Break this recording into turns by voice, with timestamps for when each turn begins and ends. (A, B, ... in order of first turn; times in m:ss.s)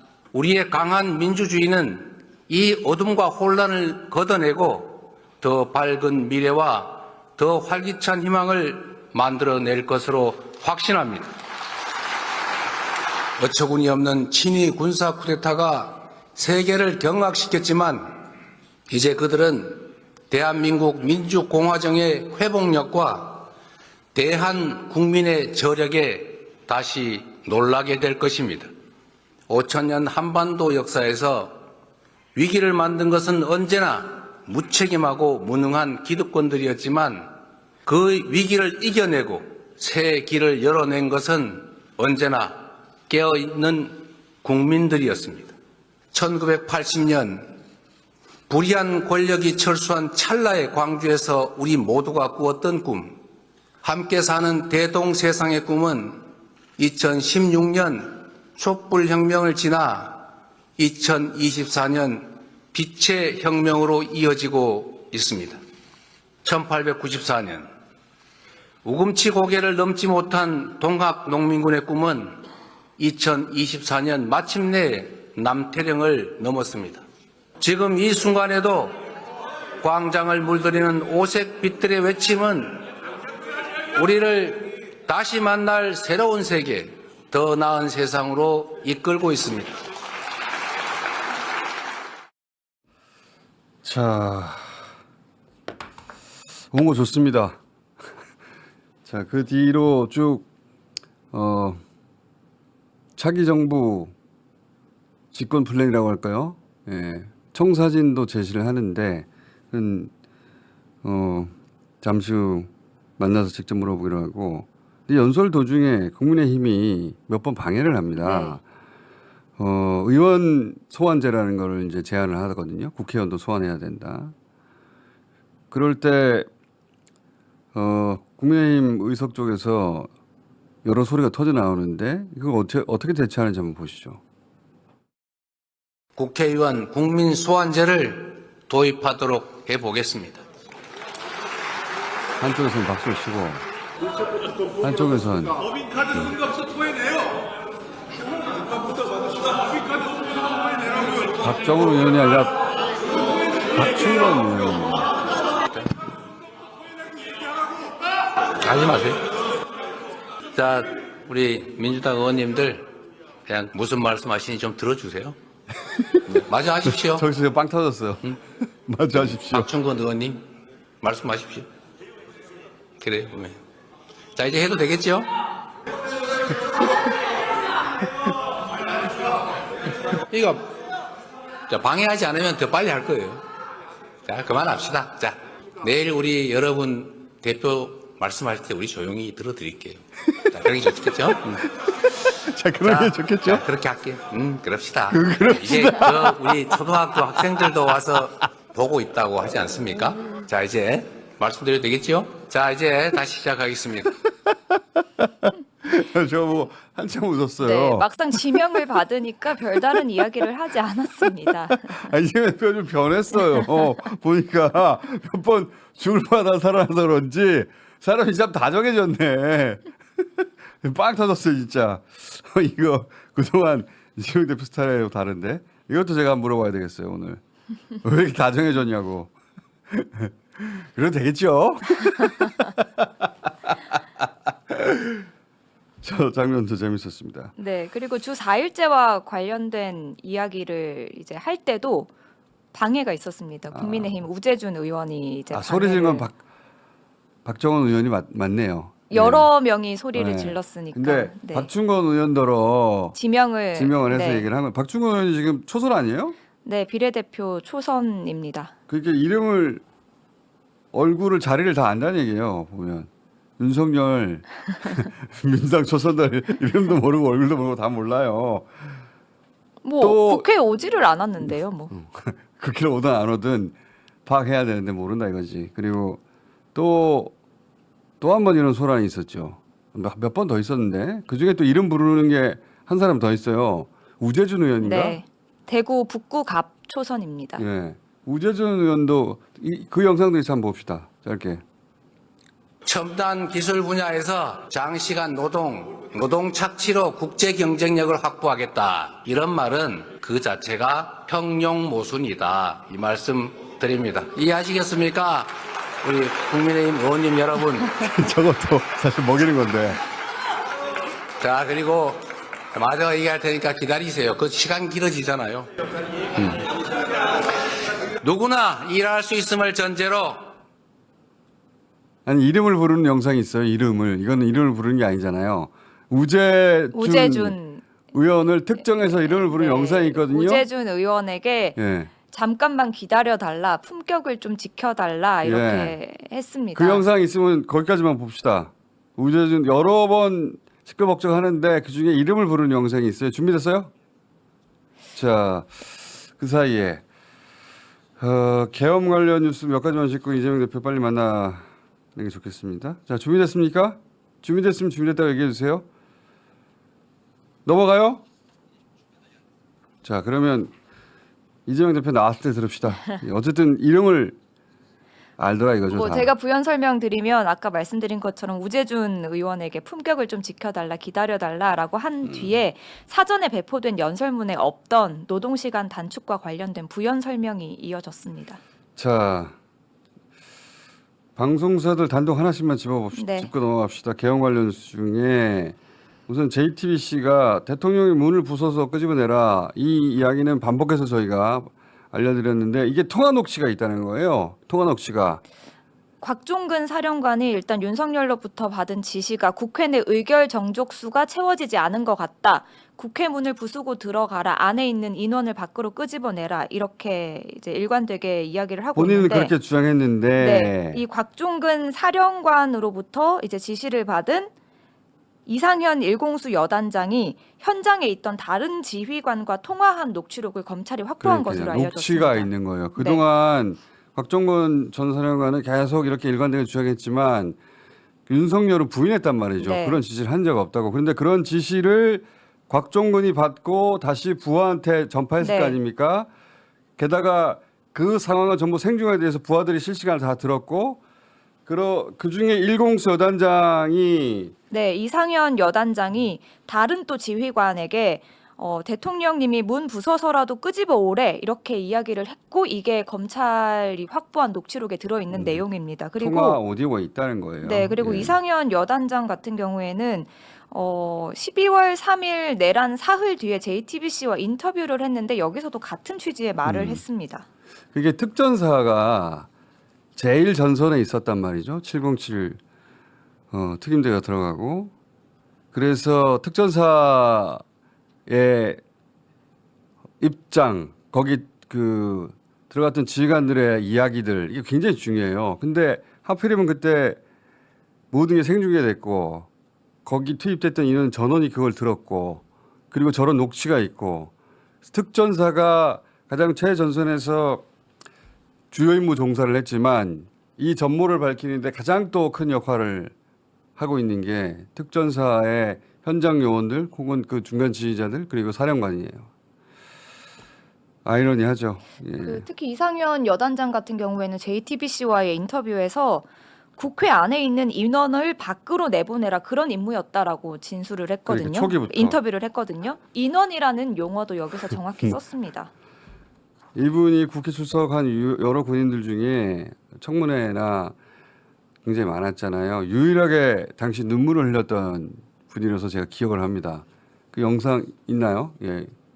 0:00.3-0:11.4 A
0:13.4-0:18.2 A
0:18.9-0:23.5 A
0:24.1-0:28.7 A
0:29.5-0:31.6 A
0:32.4-0:37.3 A
0:37.8-0:45.5 A
0:46.1-0:47.6 A
0:48.5-0:53.2 A
0:53.8-0:56.2 A
0:56.8-1:05.6 A
1:06.4-1:07.7 A
1:08.8-1:12.4 A
1:13.0-1:17.0 A
1:17.6-1:19.0 A
1:19.8-1:22.8 A
1:23.9-1:29.8 A
1:33.8-1:34.7 B
1:36.7-1:37.6 B
1:39.0-1:40.5 B
1:41.3-1:41.8 B
1:43.2-1:44.1 B
1:45.3-1:50.1 B
1:51.0-1:58.6 B
1:58.2-1:58.6 C
1:59.6-2:04.3 B
2:05.7-2:06.5 B
2:07.7-2:10.1 B
2:10.8-2:14.2 B
2:16.2-2:20.4 A
2:22.4-2:23.6 B
2:24.8-2:25.6 B
2:31.4-2:32.6 B
2:33.8-2:35.2 B
2:38.6-2:39.2 A
2:40.5-2:42.9 A
2:43.5-2:45.4 A
2:46.3-2:47.3 A
2:46.3-2:49.7 B
2:49.5-2:50.4 A
2:51.0-2:51.7 A
2:53.0-2:53.6 A
2:54.4-2:55.3 A
3:00.3-3:00.7 A
3:01.7-3:03.4 A
3:04.2-3:11.6 A
3:12.0-3:13.6 B
3:12.8-3:24.1 A
3:15.1-3:16.6 B
3:24.5-3:28.6 B
3:27.6-3:32.1 C
3:31.4-3:47.4 B
3:48.0-3:49.3 B
3:49.9-3:55.3 B
3:56.0-3:57.5 B
3:57.6-4:02.1 C
4:02.7-4:06.2 C
4:03.7-4:04.1 B
4:05.5-4:06.4 B
4:07.4-4:09.5 B
4:09.1-4:11.7 C
4:10.1-4:13.2 B
4:13.1-4:14.5 C
4:13.8-4:16.4 B
4:16.6-4:18.7 C
4:18.9-4:19.8 B
4:20.9-4:28.9 B
4:29.8-4:31.9 C
4:30.0-4:30.5 B
4:31.9-4:36.2 B
4:36.7-4:37.3 B
4:38.2-4:45.2 B
4:44.8-4:47.6 C
4:47.6-4:51.6 B
4:52.8-5:08.0 A
5:08.0-5:10.0 B
5:11.4-5:12.2 A
5:12.7-5:15.7 A
5:18.2-5:20.5 A
5:22.2-5:27.6 B
5:26.9-5:27.8 C
5:28.1-5:30.6 B
5:29.1-5:37.0 C
5:31.8-5:32.1 B
5:35.4-5:36.0 B
5:36.8-5:43.9 B
5:45.1-5:47.0 B
5:48.2-5:55.9 B
5:57.6-5:58.2 B
6:00.0-6:00.7 B
6:01.6-6:04.4 B
6:05.4-6:06.3 B
6:05.9-6:18.6 C
6:12.2-6:12.6 B
6:19.0-6:19.6 B
6:21.4-6:25.8 B
6:23.1-6:23.5 C
6:26.3-6:35.4 B
6:36.2-6:49.5 C
6:48.9-6:51.0 B
6:50.4-6:54.5 C
6:55.4-7:03.2 C
7:01.2-7:07.6 B
7:08.3-7:16.3 B
7:09.6-7:10.0 C
7:15.4-7:15.8 C
7:17.0-7:21.0 B
7:21.7-7:24.6 B
7:24.7-7:36.6 C
7:35.3-7:35.6 B
7:36.2-7:38.4 B
7:37.6-7:47.4 C
7:46.6-7:47.0 B
7:47.9-7:49.5 B
7:50.2-7:52.6 B
7:53.5-7:54.9 B
7:55.7-7:57.6 B
7:58.3-7:58.8 B
8:00.2-8:07.2 B
8:08.1-8:09.5 B
8:10.1-8:14.3 B
8:14.9-8:17.7 B
8:18.7-8:23.1 B
8:23.8-8:29.3 B
8:31.0-8:32.4 B
8:32.2-8:36.2 C
8:36.8-8:45.7 C
8:41.3-8:42.2 B
8:46.7-8:50.9 B
8:51.8-8:58.9 B